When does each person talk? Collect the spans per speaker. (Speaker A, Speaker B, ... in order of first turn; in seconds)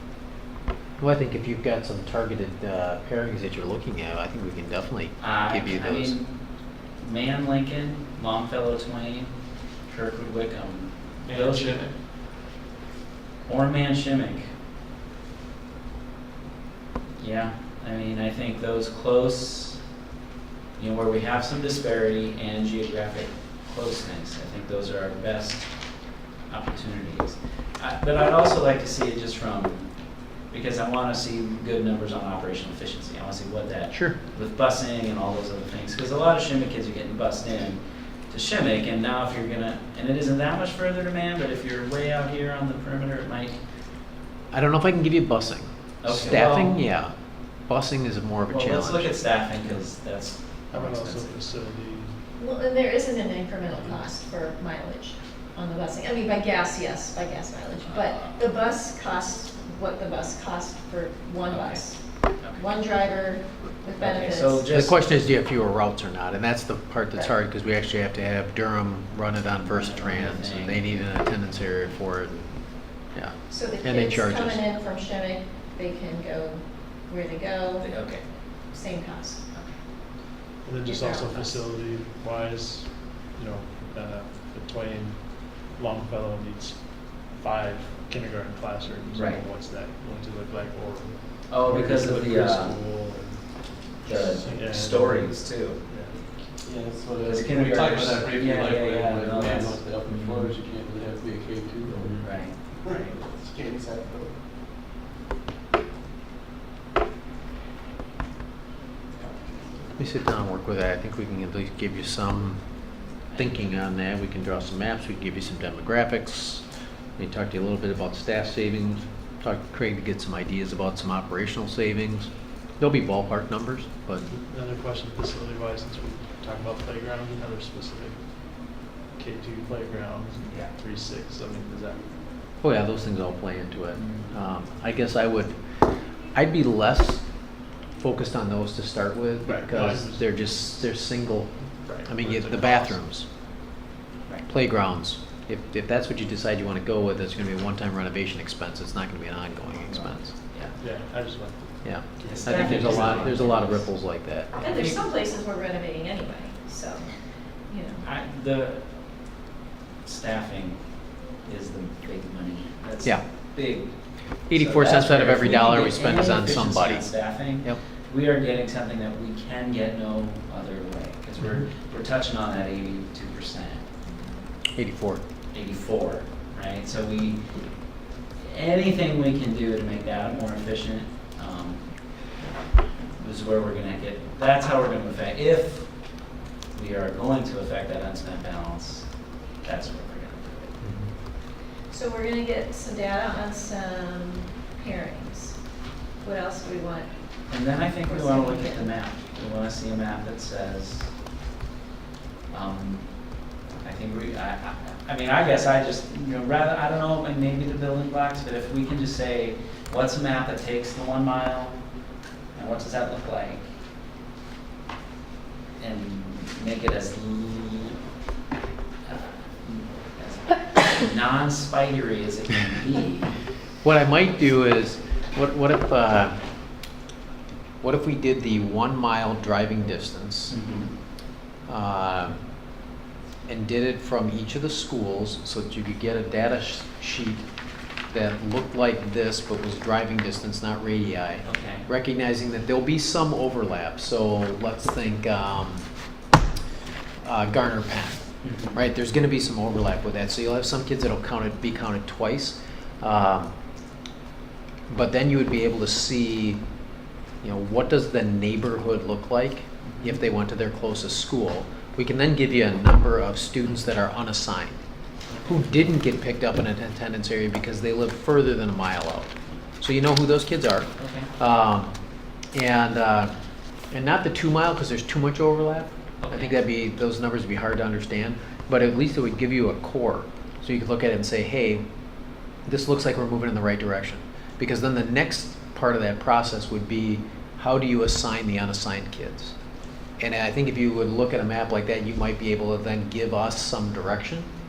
Speaker A: 1.0-6.2, 44.5-47.1, 47.7-49.1, 64.7-74.6, 110.0-112.6, 113.4-116.6, 117.2-124.3, 132.6-135.7, 136.3-137.3, 138.0-143.3, 144.5-150.3, 151.8-154.5, 164.5-167.8, 174.8-175.2, 190.8-191.1, 223.8-226.4, 227.8-230.6, 231.7-232.4, 233.5-237.5, 238.1-245.9, 247.2-253.5, 254.9-256.6, 257.4-264.8, 265.5-271.9, 272.5-273.3, 273.9-281.8, 282.7-289.5, 290.2-294.5
Speaker B: 5.2-6.3, 7.0-11.8, 13.4-14.5, 17.2-19.8, 20.8-43.6, 46.0-46.8, 48.5-51.3, 57.9-58.2, 61.5-62.6, 64.0-65.0, 69.7-71.0, 77.8-78.2, 89.1-89.4, 91.5-92.8, 94.0-95.8, 97.2-100.5, 102.0-103.2, 113.3-113.7, 133.9-134.3, 149.8-150.8, 152.2-153.9, 154.6-155.0, 158.0-158.9, 160.0-163.9, 164.5-173.9, 175.5-177.6, 178.4-182.3, 183.2-190.8, 197.5-201.1, 202.5-211.9, 212.5-213.7, 215.8-218.0, 219.1-223.4, 230.5-230.9, 241.4-241.9, 248.4-248.8, 259.8-260.2, 265.3-265.6, 271.0-271.3, 276.2-276.6
Speaker C: 11.3-11.9, 96.6-104.3
Speaker D: 50.7-52.2, 53.7-54.0, 80.6-96.4, 124.3-132.0, 139.4-140.3, 141.8-143.0, 150.8-153.5
Speaker E: 52.4-62.0, 62.5-64.7, 73.5-78.0, 78.7-79.4, 80.8-81.6, 154.6-157.1, 157.7-158.1, 191.9-195.6, 196.2-197.1, 198.1-198.9